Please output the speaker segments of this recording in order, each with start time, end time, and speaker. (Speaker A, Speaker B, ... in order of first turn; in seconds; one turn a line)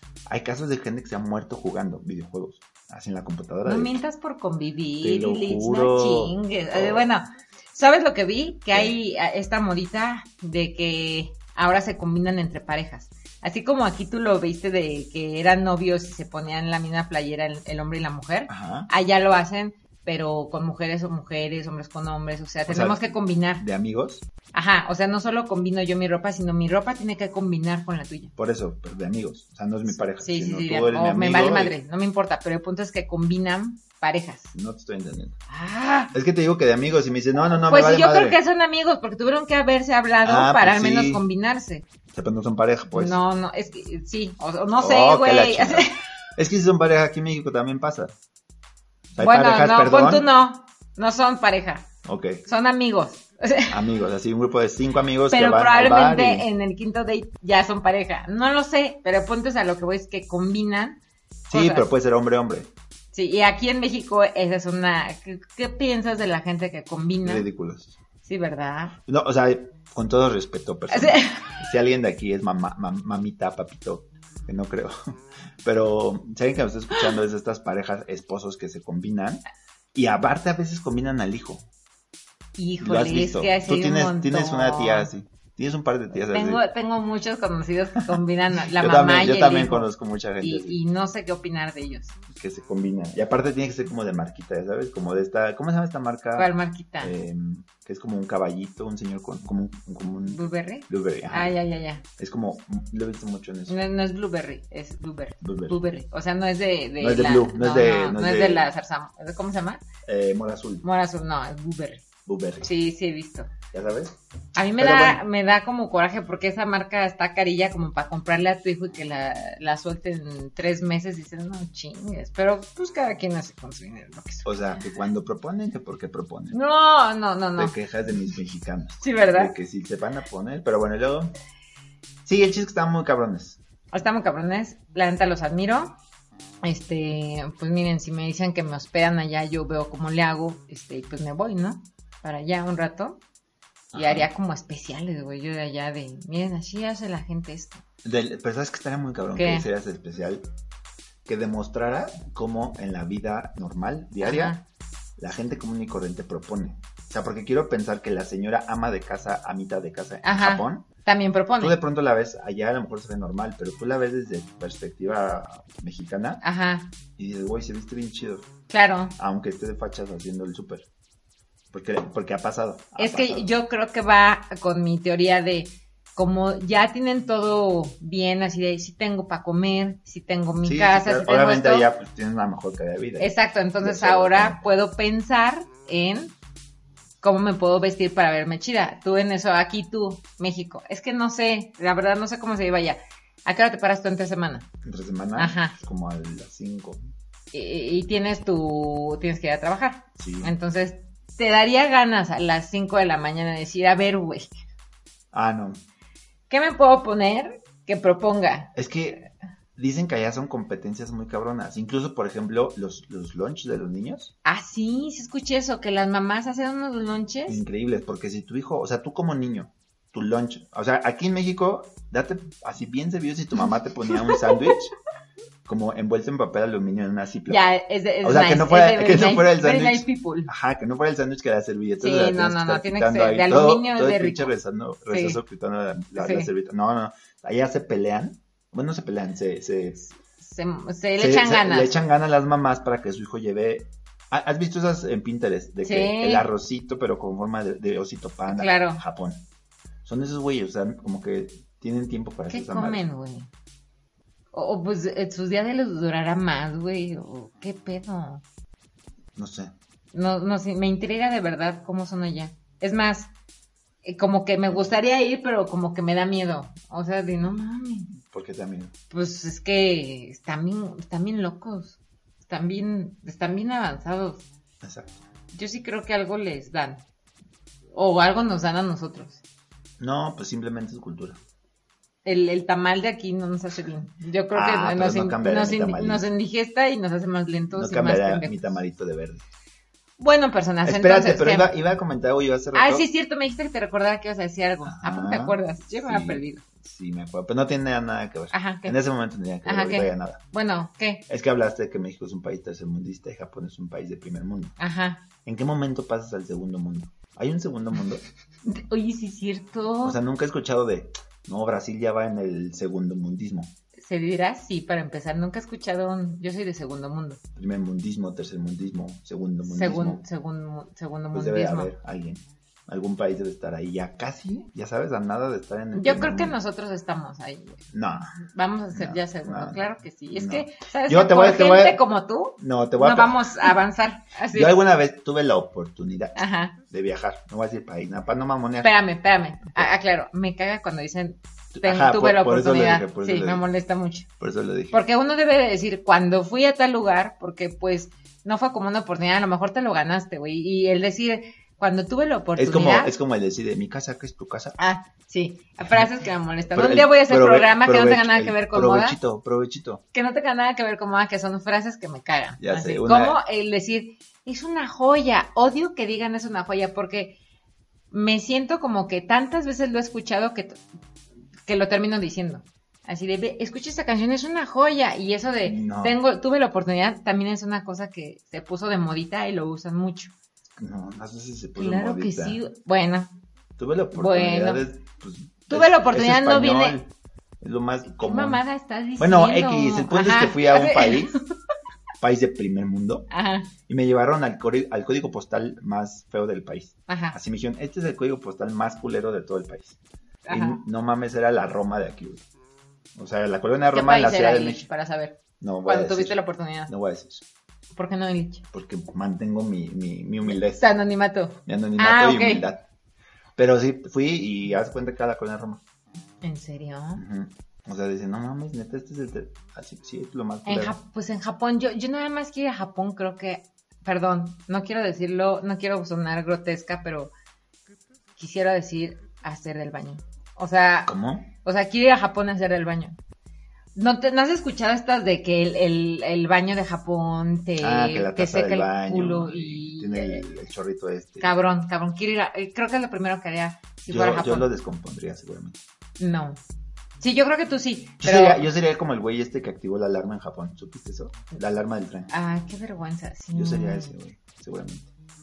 Speaker A: 0.3-3.9
Speaker B: 3.6-23.6
Speaker A: 5.0-7.1
Speaker A: 18.5-18.9
Speaker A: 22.7-24.2
Speaker B: 24.5-28.3
Speaker A: 28.4-31.8
Speaker B: 30.2-34.5
Speaker A: 34.5-35.4
Speaker B: 35.5-36.1
Speaker A: 36.1-38.4
Speaker B: 37.6-41.9
Speaker A: 40.2-41.2
Speaker A: 42.1-43.2
Speaker B: 42.9-46.0
Speaker A: 44.8-48.1
Speaker A: 49.1-50.3
Speaker B: 49.2-51.9
Speaker A: 52.0-52.4
Speaker B: 52.5-53.8
Speaker A: 53.7-56.5
Speaker B: 55.3-61.0
Speaker A: 61.5-62.7
Speaker B: 61.5-61.9
Speaker B: 63.1-67.5
Speaker A: 67.2-68.0
Speaker B: 68.2-69.0
Speaker A: 69.1-79.4
Speaker B: 70.9-71.5
Speaker A: 79.9-81.7
Speaker B: 82.6-85.1
Speaker A: 82.8-86.6
Speaker B: 86.2-92.2
Speaker A: 88.7-90.8
Speaker A: 92.3-101.6
Speaker B: 96.4-97.2
Speaker B: 100.3-102.0
Speaker A: 102.2-103.8
Speaker B: 103.7-109.8
Speaker A: 105.4-105.8
Speaker A: 107.0-108.7
Speaker A: 110.1-110.8
Speaker B: 110.8-112.0
Speaker A: 112.3-112.7
Speaker B: 112.6-113.5
Speaker A: 113.7-114.1
Speaker B: 114.6-124.6
Speaker A: 114.8-115.2
Speaker A: 124.5-126.6
Speaker B: 126.5-127.7
Speaker A: 127.6-131.3
Speaker B: 129.0-129.5
Speaker A: 132.3-133.6
Speaker B: 133.9-136.0
Speaker B: 136.6-143.2
Speaker A: 143.9-144.3
Speaker B: 143.9-147.8
Speaker A: 148.0-150.5
Speaker B: 149.3-149.7
Speaker A: 151.3-154.6
Speaker B: 154.2-154.7
Speaker A: 155.2-160.9
Speaker B: 160.2-161.8
Speaker A: 161.6-166.4
Speaker B: 166.4-166.9
Speaker A: 167.2-168.5
Speaker B: 168.7-169.2
Speaker A: 169.2-170.9
Speaker A: 171.7-173.5
Speaker B: 173.0-181.9
Speaker A: 180.6-184.6
Speaker B: 183.2-186.3
Speaker B: 187.2-194.7
Speaker A: 194.8-197.0
Speaker B: 195.4-195.8
Speaker B: 197.5-204.6
Speaker A: 200.2-200.5
Speaker A: 205.3-205.8
Speaker B: 206.5-208.7
Speaker A: 208.8-214.3
Speaker B: 214.4-217.6
Speaker A: 217.5-224.9
Speaker B: 224.2-224.7
Speaker A: 225.7-227.6
Speaker B: 227.5-230.5
Speaker A: 228.2-240.1
Speaker B: 232.0-234.5
Speaker B: 235.1-235.4
Speaker B: 236.2-236.5
Speaker B: 240.4-242.0
Speaker A: 241.2-249.4
Speaker B: 245.8-246.5
Speaker B: 248.5-249.0
Speaker A: 250.1-253.0
Speaker B: 252.5-253.5
Speaker B: 254.5-258.4
Speaker A: 259.4-259.7
Speaker B: 260.1-263.3
Speaker B: 264.0-268.1
Speaker A: 264.7-265.0
Speaker A: 268.2-268.9
Speaker B: 269.1-274.5
Speaker A: 274.8-275.2
Speaker B: 275.5-277.0
Speaker B: 277.9-279.4
Speaker A: 280.0-281.4
Speaker B: 282.2-288.6
Speaker A: 284.5-286.3
Speaker A: 287.7-289.5
Speaker B: 290.2-291.7
Speaker A: 290.8-293.1
Speaker B: 292.7-296.6
Speaker A: 294.8-300.4
Speaker B: 298.5-299.0
Speaker B: 299.6-301.3
Speaker A: 301.3-304.8
Speaker B: 304.8-305.3
Speaker A: 305.4-308.2
Speaker B: 308.7-310.2
Speaker A: 310.0-313.7
Speaker B: 314.0-317.4
Speaker A: 317.6-320.2
Speaker B: 319.6-321.9
Speaker A: 321.3-326.6
Speaker B: 325.9-327.8
Speaker A: 327.9-328.3
Speaker B: 328.4-334.8
Speaker A: 328.9-332.0
Speaker A: 332.6-333.8
Speaker A: 334.5-338.9
Speaker B: 336.4-336.8
Speaker B: 338.8-344.3
Speaker A: 341.7-343.6
Speaker A: 344.4-345.0
Speaker B: 344.9-353.1
Speaker A: 352.6-354.8
Speaker B: 354.8-359.2
Speaker A: 356.8-360.0
Speaker B: 360.1-367.4
Speaker A: 362.6-363.4
Speaker B: 368.1-370.8
Speaker B: 371.7-380.3
Speaker A: 375.7-376.2
Speaker A: 380.8-382.6
Speaker B: 381.8-383.4
Speaker A: 383.8-387.1
Speaker B: 384.1-384.9
Speaker B: 385.7-387.0
Speaker A: 387.6-388.6
Speaker B: 388.1-391.4
Speaker A: 389.2-391.4
Speaker A: 392.2-393.3
Speaker B: 393.3-393.7
Speaker A: 393.9-400.0
Speaker B: 397.1-397.4
Speaker B: 400.5-400.8
Speaker A: 400.5-402.4
Speaker A: 403.1-404.9
Speaker B: 403.9-406.9
Speaker A: 405.6-407.4
Speaker B: 407.9-408.6
Speaker A: 408.7-410.9
Speaker B: 410.5-412.6
Speaker A: 411.7-412.8
Speaker A: 413.6-415.8
Speaker B: 416.4-417.2
Speaker A: 417.2-421.0
Speaker B: 420.7-427.3
Speaker B: 428.4-433.2
Speaker A: 431.1-431.5
Speaker B: 433.9-440.5
Speaker A: 437.8-441.5
Speaker B: 441.4-444.7
Speaker A: 444.1-445.8
Speaker B: 446.2-446.6
Speaker B: 447.2-448.7
Speaker A: 448.2-452.3
Speaker B: 452.3-454.1
Speaker A: 453.5-455.1